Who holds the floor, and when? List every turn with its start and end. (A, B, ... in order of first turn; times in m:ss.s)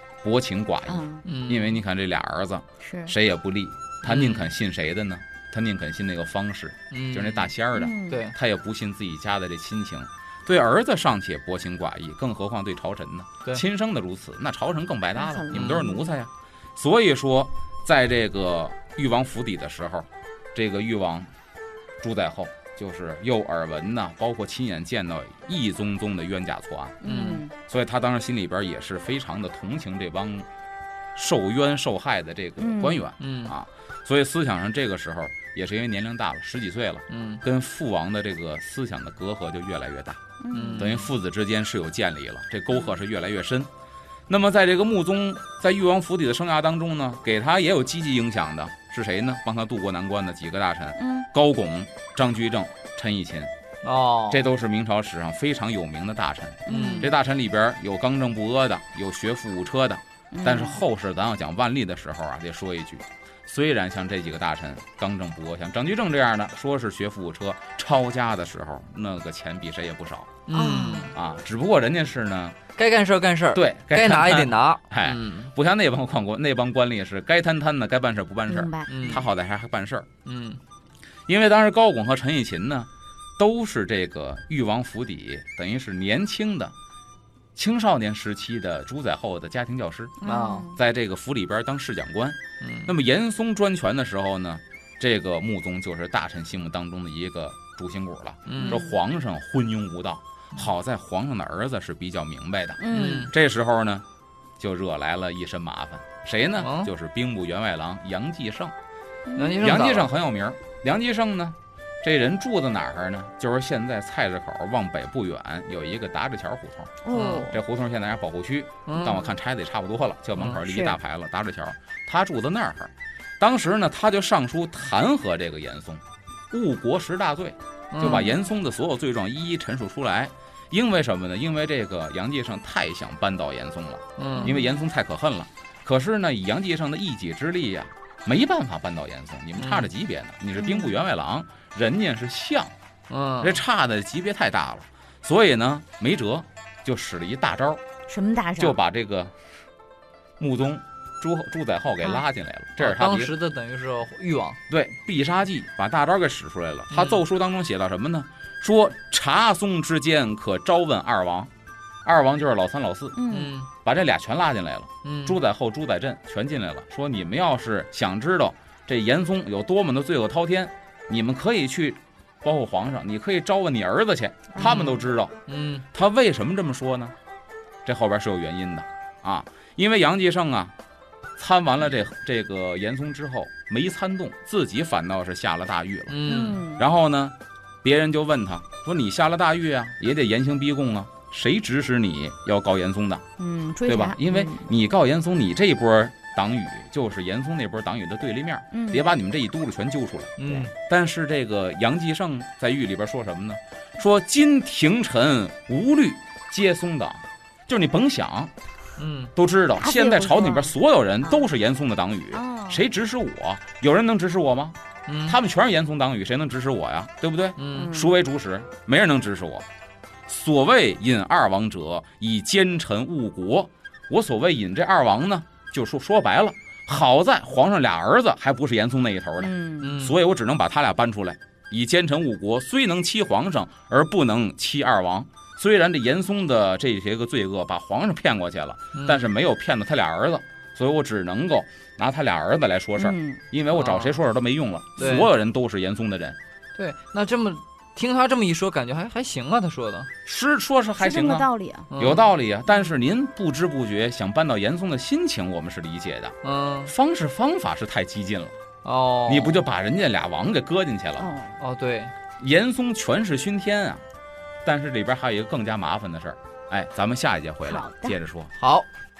0:00.2-0:21.3 A
0:00.9-0:01.2 B
0:01.2-0:01.8 C
0:02.8-0:03.1 B
0:04.0-0:04.5 C
0:06.9-0:07.5 C
0:07.7-0:08.2 B
0:08.1-0:08.4 C
0:15.2-0:16.1 B
0:15.5-0:15.8 C
0:22.0-0:27.0 A
0:27.0-0:27.5 B
0:27.0-0:27.4 C
0:27.5-0:30.5 A
0:31.2-0:40.2 A
0:32.6-0:33.0 B
0:33.2-0:33.5 C
0:37.1-0:37.4 C
0:40.4-0:41.0 B
0:40.5-0:41.1 C
0:40.8-0:43.7 A
0:44.3-0:53.5 A
0:51.0-0:51.3 B
0:53.8-0:54.4 C
0:54.3-1:10.4 A
0:56.7-0:57.1 B
0:56.7-0:57.1 C
1:00.3-1:00.8 B
1:10.5-1:11.1 C
1:10.5-1:11.1 B
1:11.1-1:12.6 A
1:12.8-1:15.5 C
1:13.5-1:20.1 A
1:18.5-1:19.2 B
1:18.9-1:19.2 C
1:20.2-1:20.6 C
1:21.3-1:26.7 A
1:27.6-1:30.2 A
1:30.2-1:30.8 B
1:30.2-1:30.7 C
1:30.7-1:44.0 A
1:32.6-1:32.9 C
1:38.5-1:38.8 C
1:38.6-1:39.0 B
1:42.8-1:43.3 B
1:42.9-1:43.3 C
1:44.6-1:48.7 A
1:46.6-1:46.9 C
1:49.3-1:49.6 B
1:49.4-1:50.1 C
1:49.6-2:22.7 A
1:57.0-1:57.6 B
1:57.1-1:57.5 C
1:58.9-1:59.3 C
2:00.6-2:01.0 B
2:07.9-2:08.3 C
2:08.0-2:08.4 B
2:14.2-2:14.5 C
2:14.3-2:14.8 B
2:19.6-2:19.9 C
2:20.6-2:21.0 B
2:23.1-2:23.6 C
2:23.4-2:27.8 A
2:28.1-2:28.8 B
2:28.6-2:29.4 A
2:30.4-2:33.3 A
2:32.8-2:34.6 C
2:34.7-2:41.5 A
2:36.9-2:37.2 C
2:42.0-2:43.2 A
2:43.2-2:43.5 B
2:43.3-2:43.7 C
2:43.8-2:55.4 A
2:45.0-2:45.4 C
2:54.6-2:54.8 B
2:54.6-2:55.8 C
2:55.9-2:57.2 A
2:57.8-3:00.7 A
3:01.4-3:13.2 A
3:06.1-3:06.6 C
3:06.3-3:06.8 B
3:13.4-3:14.7 B
3:13.9-3:28.5 A
3:18.7-3:19.0 B
3:20.4-3:20.7 C
3:29.0-3:29.3 C
3:29.4-3:39.7 A
3:29.8-3:30.7 B
3:32.3-3:32.8 B
3:35.1-3:35.4 C
3:37.6-3:37.9 C
3:37.7-3:38.2 B
3:40.3-4:06.4 A
3:49.4-3:50.0 B
3:49.8-3:50.2 C
3:58.9-3:59.3 C
4:03.0-4:03.4 B
4:03.7-4:04.2 C
4:05.0-4:05.3 C
4:06.8-4:10.1 C
4:10.2-4:16.4 A
4:11.0-4:11.9 B
4:11.9-4:12.3 C
4:16.4-4:16.9 C
4:16.9-4:18.6 A
4:18.8-4:19.6 C
4:19.3-4:21.3 A
4:21.2-4:21.6 B
4:21.6-4:22.1 C
4:22.4-4:24.0 A
4:24.6-4:28.5 A
4:27.7-4:28.2 B
4:28.6-4:28.9 C